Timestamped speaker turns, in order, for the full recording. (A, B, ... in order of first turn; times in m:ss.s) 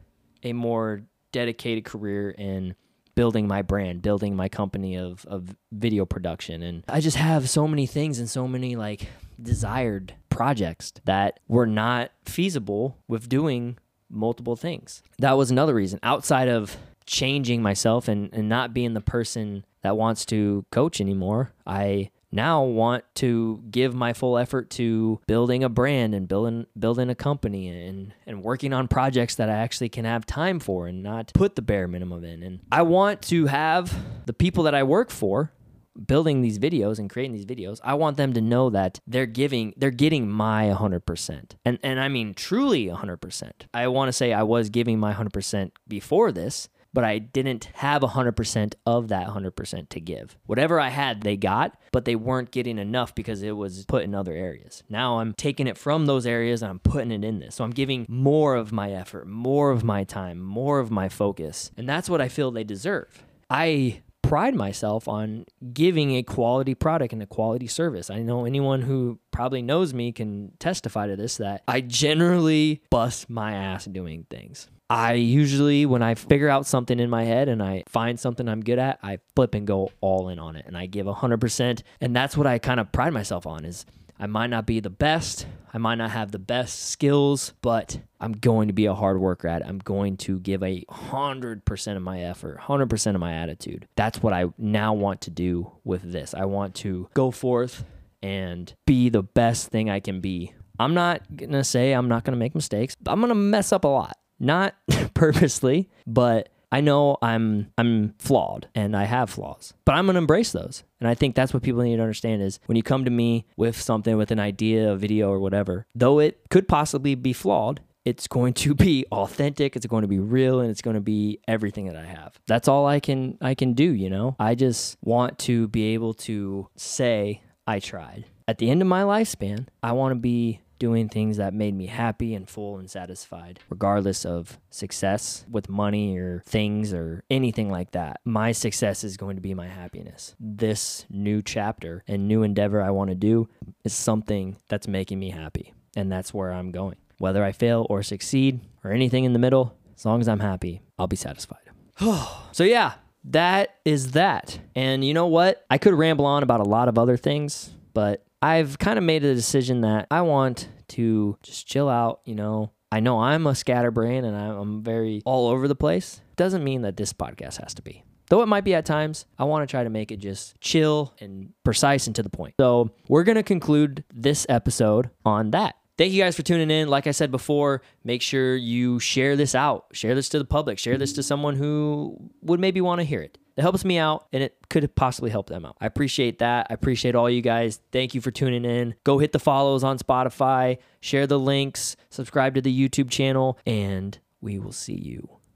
0:00.4-3:15.4 A